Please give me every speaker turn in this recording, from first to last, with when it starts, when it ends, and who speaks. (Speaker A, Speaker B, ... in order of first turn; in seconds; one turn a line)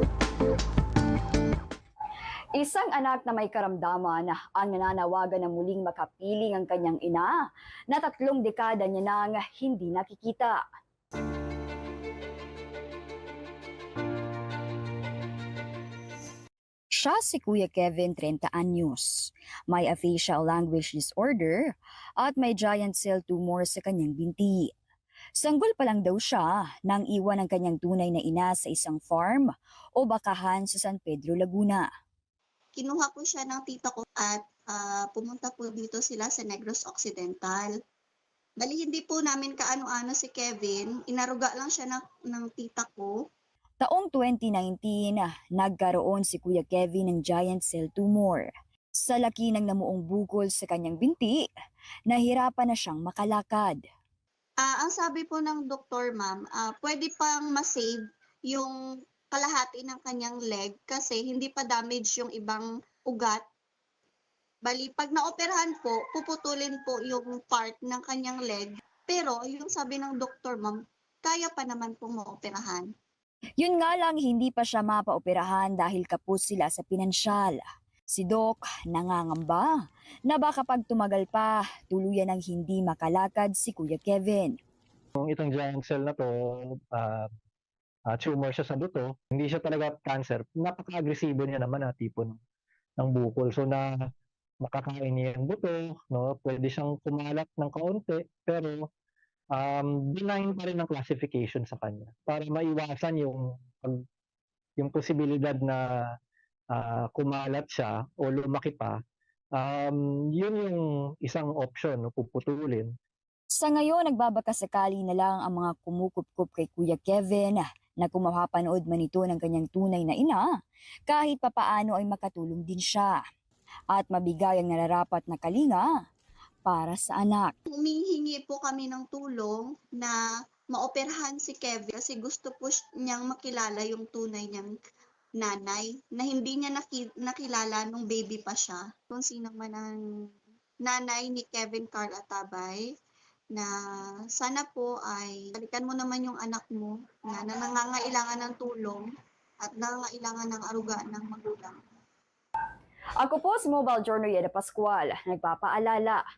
Speaker A: 2.5-10.6
Speaker A: 16.9-24.7
Speaker A: 25.4-31.9
Speaker B: 32.8-37.7
Speaker B: 38.6-43.1
Speaker A: 43.8-51.5
Speaker A: 52.1-53.8
Speaker B: 54.6-58.0
Speaker B: 58.5-58.8
Speaker B: 59.3-63.4
Speaker B: 64.6-72.9
Speaker A: 73.6-84.6
Speaker C: 85.2-87.3
Speaker C: 88.1-92.4
Speaker C: 93.0-93.9
Speaker C: 94.6-98.9
Speaker C: 99.5-104.0
Speaker C: 104.8-106.0
Speaker C: 106.7-109.0
Speaker C: 109.5-112.9
Speaker A: 113.5-120.5
Speaker A: 121.1-123.2
Speaker A: 123.9-125.9
Speaker A: 126.6-127.5
Speaker B: 127.7-130.2
Speaker B: 130.7-134.7
Speaker B: 135.4-139.9
Speaker B: 140.8-142.8
Speaker B: 144.3-149.1
Speaker B: 149.6-151.8
Speaker A: 153.2-156.2